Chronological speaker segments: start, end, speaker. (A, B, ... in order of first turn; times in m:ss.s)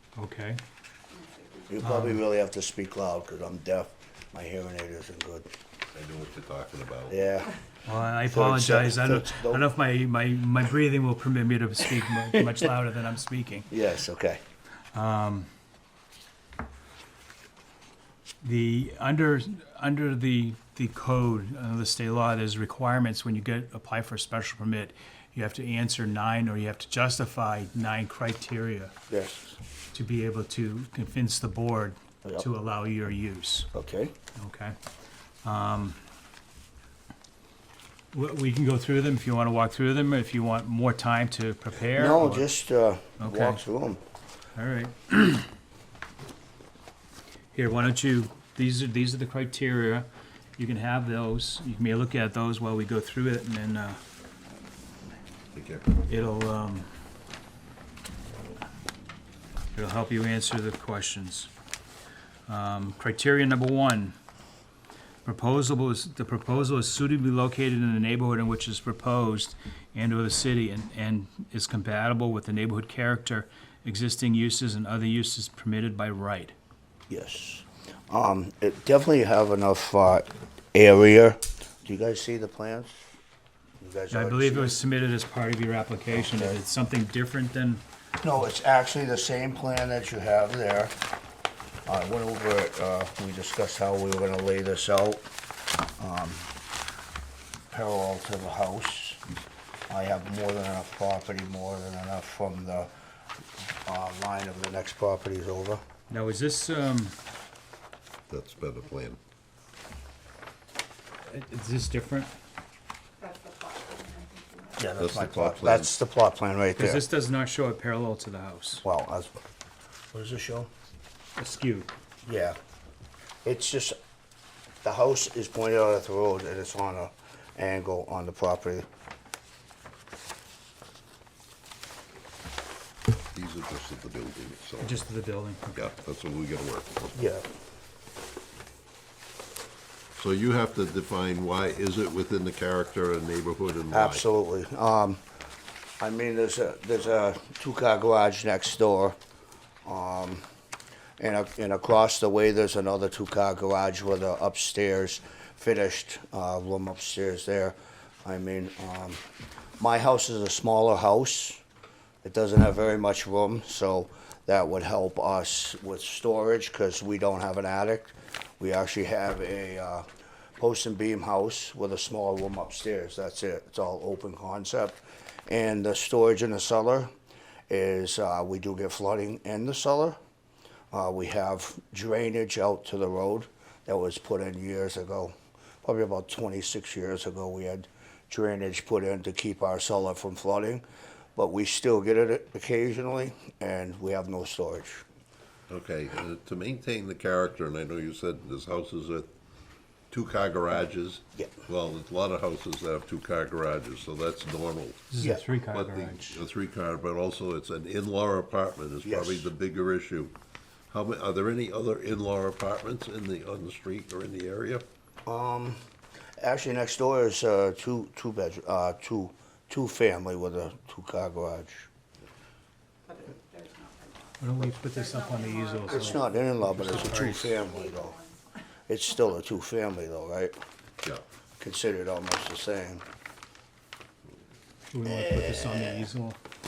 0:00.2-0:00.6 A
0:01.1-0:01.7 B
0:01.7-0:05.5 C
0:01.8-0:02.2 A
0:05.9-0:07.2 D
0:07.1-0:07.6 C
0:07.8-0:13.7 A
0:08.2-0:09.6 C
0:13.7-0:14.4 C
0:14.9-0:15.5 A
0:18.4-0:28.9 A
0:29.1-0:29.6 C
0:29.9-0:33.7 A
0:33.7-0:34.1 C
0:34.4-0:34.8 A
0:35.4-0:36.0 A
0:38.1-0:42.5 A
0:41.9-0:44.0 C
0:43.2-0:43.6 A
0:44.6-0:45.5 A
0:47.5-0:54.0 A
0:55.5-0:56.0 D
0:56.1-0:56.9 A
0:59.7-1:01.5 A
1:02.5-1:04.2 A
1:05.2-1:16.5 A
1:17.1-1:23.0 C
1:23.8-1:24.8 C
1:24.1-1:27.8 A
1:26.1-1:26.6 C
1:28.2-1:30.9 C
1:31.8-1:35.3 C
1:36.0-1:36.5 C
1:37.7-1:39.2 C
1:39.9-1:42.9 C
1:43.8-1:45.8 C
1:46.1-1:47.1 A
1:48.3-1:49.2 D
1:51.3-1:52.3 A
1:53.2-1:54.9 B
1:54.8-1:57.0 C
1:55.0-1:55.9 D
1:56.8-1:58.8 A
1:58.8-1:59.4 C
2:00.1-2:00.7 C
2:01.4-2:01.9 A
2:02.2-2:02.6 C
2:03.4-2:04.0 C
2:04.8-2:08.8 C
2:13.3-2:15.0 D
2:14.8-2:15.9 A
2:15.7-2:17.0 D
2:17.1-2:17.5 C
2:20.2-2:24.2 D
2:23.9-2:25.2 C
2:26.0-2:29.2 C
2:29.8-2:30.4 C
2:31.2-2:39.2 C
2:39.8-2:41.6 C
2:42.2-2:50.0 C
2:50.6-2:57.1 C
2:57.7-3:00.2 C
3:00.9-3:10.8 C
3:11.4-3:15.0 C
3:15.7-3:19.3 D
3:20.1-3:25.1 D
3:25.1-3:26.4 A
3:25.7-3:30.3 D
3:29.0-3:29.5 C
3:30.9-3:34.8 D
3:35.2-3:35.8 C
3:36.4-3:41.9 C
3:43.0-3:48.5 B
3:44.4-3:47.6 A
3:45.9-3:48.2 C
3:48.9-3:50.6 C
3:51.6-3:53.0 C
3:54.9-3:56.4 A
3:55.0-3:56.1 C